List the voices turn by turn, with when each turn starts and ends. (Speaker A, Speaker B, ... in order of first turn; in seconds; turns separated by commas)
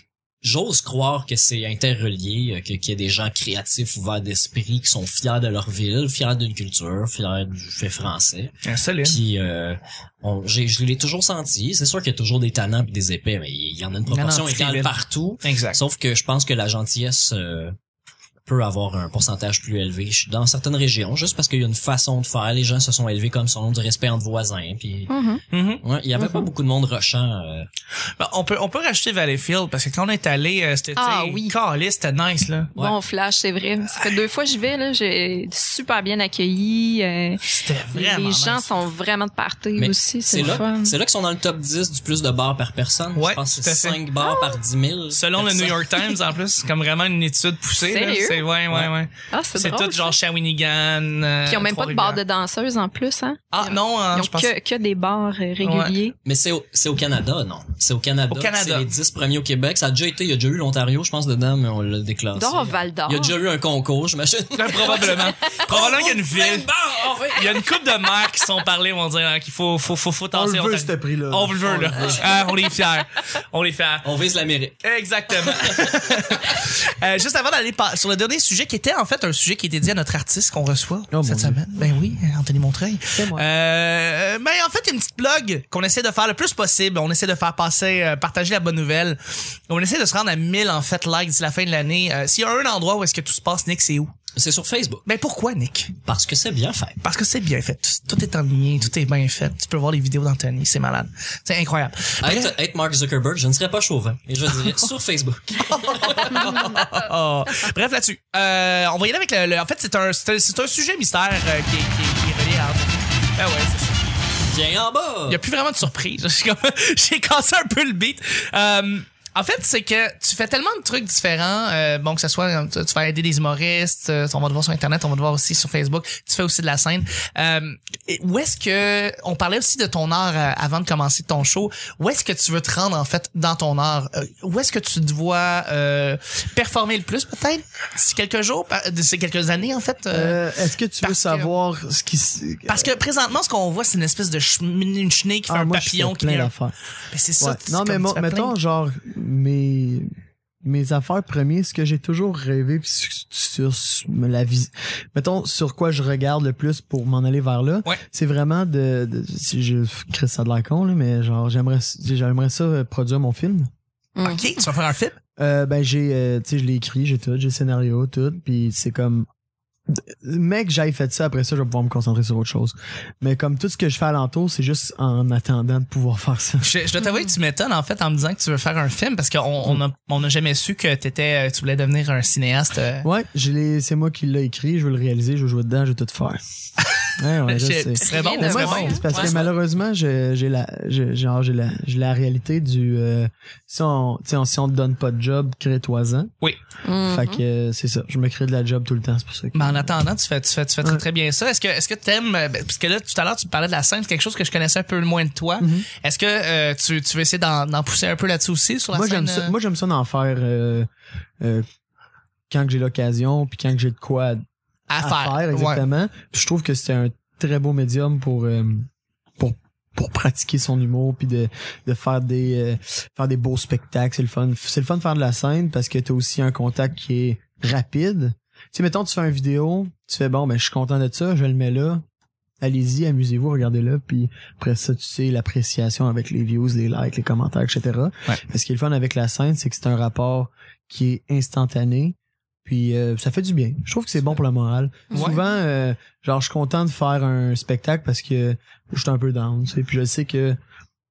Speaker A: 0.4-17.7, Speaker B: 8.6-9.2, Speaker B: 14.1-15.8, Speaker A: 18.4-25.1, Speaker C: 25.1-25.4, Speaker B: 25.5-25.8, Speaker A: 25.8-27.7, Speaker C: 26.2-26.5, Speaker B: 28.2-32.7, Speaker C: 30.9-31.6, Speaker C: 32.8-41.0, Speaker B: 33.9-34.2, Speaker B: 37.4-38.7, Speaker A: 39.8-45.9, Speaker B: 43.1-44.0, Speaker C: 44.2-44.6, Speaker B: 45.1-52.2, Speaker C: 47.8-48.5, Speaker C: 49.3-50.2, Speaker C: 51.4-56.1, Speaker B: 53.5-54.5, Speaker B: 55.6-56.0, Speaker A: 56.2-67.9, Speaker B: 58.3-58.9, Speaker C: 62.3-63.4, Speaker B: 64.5-66.7, Speaker B: 67.3-74.1, Speaker D: 70.3-72.2, Speaker A: 72.0-72.2, Speaker A: 74.0-76.5, Speaker B: 74.8-94.1, Speaker D: 81.1-81.6, Speaker D: 83.1-83.4, Speaker A: 94.3-95.0, Speaker B: 95.0-95.9, Speaker A: 96.0-97.0, Speaker B: 97.0-102.5, Speaker A: 102.2-106.3, Speaker B: 104.5-104.8, Speaker B: 105.6-114.0, Speaker A: 114.5-115.4, Speaker B: 115.3-140.4, Speaker D: 140.1-142.9, Speaker B: 141.0-141.5, Speaker B: 142.7-146.5, Speaker D: 145.5-146.7, Speaker B: 147.1-148.5, Speaker D: 147.4-150.1, Speaker D: 150.6-163.7, Speaker C: 164.2-164.7, Speaker B: 164.2-165.2, Speaker D: 165.4-169.3, Speaker D: 170.1-176.6, Speaker B: 176.6-183.1, Speaker D: 183.0-186.4, Speaker D: 187.2-196.3, Speaker B: 187.4-189.4, Speaker C: 188.0-189.3, Speaker A: 189.2-189.5, Speaker C: 196.8-197.4, Speaker D: 197.0-199.9, Speaker B: 199.5-209.5, Speaker D: 205.6-205.9, Speaker D: 208.9-210.9, Speaker D: 212.5-214.4, Speaker B: 214.9-215.8, Speaker D: 215.0-218.9, Speaker D: 219.4-232.0, Speaker D: 232.6-250.6, Speaker B: 245.1-245.4